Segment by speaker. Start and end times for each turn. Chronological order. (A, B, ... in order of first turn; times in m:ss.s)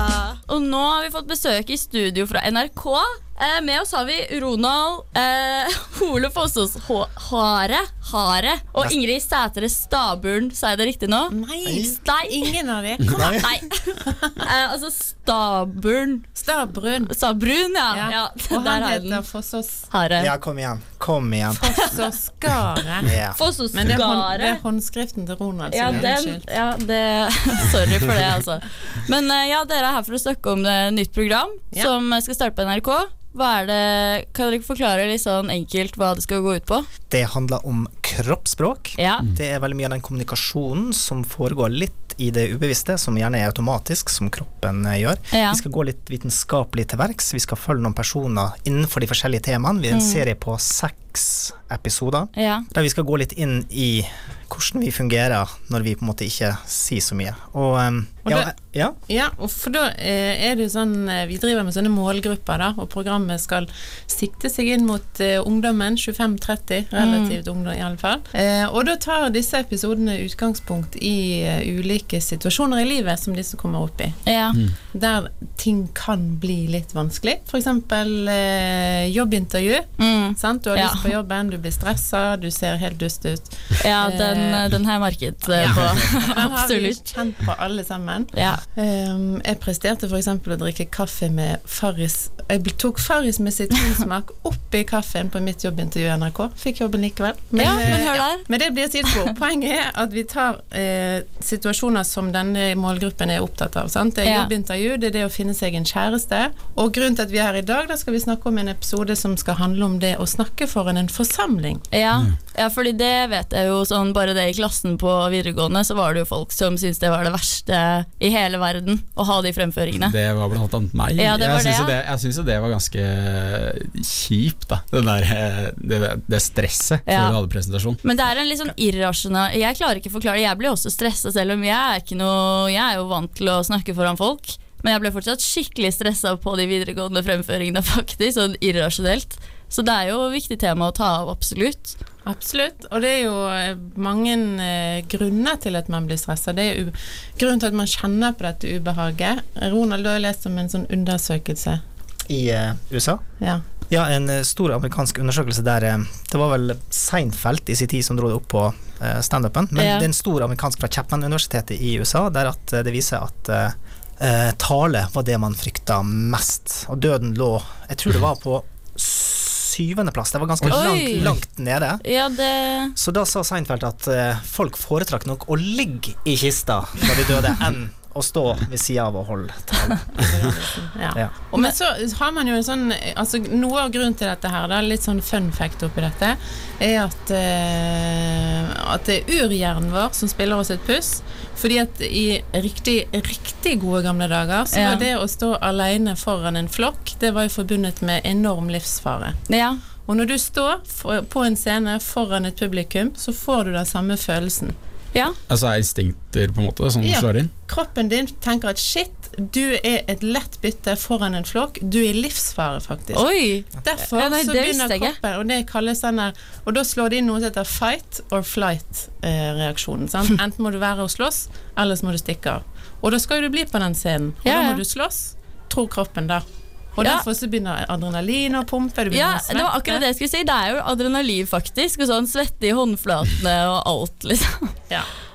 0:00.5-0:12.5 A
0:11.3-0:14.4 B
0:11.7-0:11.9 C
0:13.1-0:13.4 C
0:13.2-0:16.3 A
0:16.3-0:17.1 B
0:17.0-0:19.2 A
0:17.9-0:19.9 B
0:19.9-0:20.3 A
0:20.2-0:21.8 C
0:21.5-0:23.1 B
0:23.0-0:23.4 C
0:23.3-0:24.6 A
0:23.7-0:26.4 B
0:25.7-0:36.9 A
0:37.1-0:59.0 C
0:39.0-0:39.2 A
0:45.3-0:45.6 A
0:49.9-0:50.2 A
0:52.3-0:52.6 A
0:58.2-0:58.5 B
0:59.1-1:14.2 B
1:07.0-1:07.4 A
1:14.2-1:14.6 A
1:14.9-1:24.7 B
1:20.0-1:21.1 A
1:23.8-1:27.0 A
1:25.4-1:51.8 B
1:25.6-1:26.0 D
1:28.3-1:28.6 A
1:37.6-1:38.4 A
1:44.2-1:44.5 A
1:51.9-2:00.1 A
2:00.0-2:08.0 D
2:01.2-2:01.9 A
2:07.0-2:07.4 A
2:08.0-2:22.0 A
2:22.2-2:31.8 B
2:32.3-2:33.2 C
2:33.4-2:33.7 B
2:33.8-2:52.0 C
2:39.8-2:40.1 A
2:50.6-2:51.4 D
2:50.7-2:51.3 A
2:52.0-2:52.9 A
2:53.0-3:00.2 C
3:00.0-3:19.4 B
3:14.7-3:15.1 A
3:19.5-3:19.8 A
3:20.0-3:24.8 B
3:25.5-3:27.5 D
3:27.0-3:33.3 B
3:33.1-3:35.2 A
3:33.8-3:46.4 B
3:44.4-3:44.8 A
3:47.0-3:50.0 B
3:49.1-3:54.8 A